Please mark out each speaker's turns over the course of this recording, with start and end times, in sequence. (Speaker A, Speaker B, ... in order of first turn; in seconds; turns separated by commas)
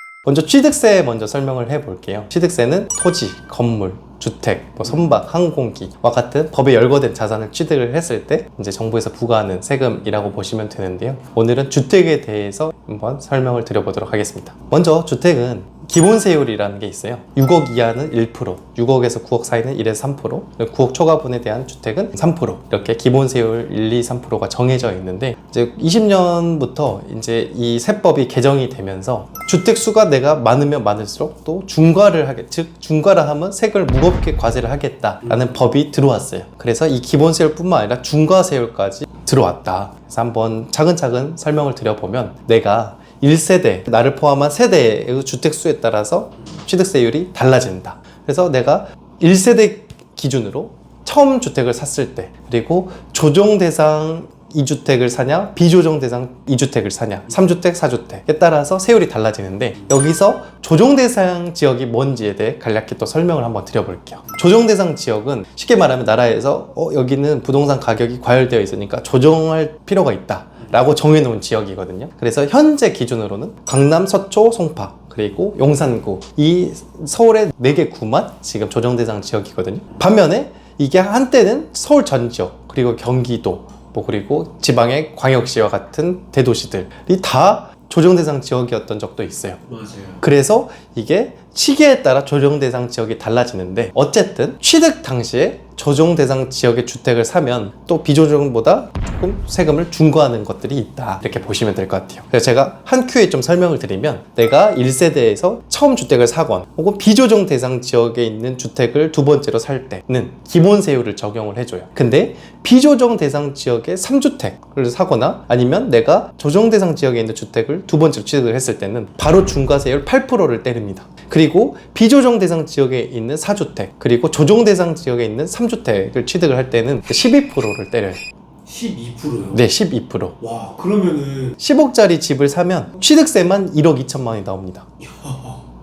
Speaker A: 0.2-89.6, Speaker B: 35.2-35.6, Speaker B: 89.7-90.2, Speaker A: 90.2-128.2, Speaker B: 128.7-129.6, Speaker A: 129.5-130.4, Speaker B: 130.4-131.6, Speaker A: 131.6-134.9, Speaker B: 135.0-135.7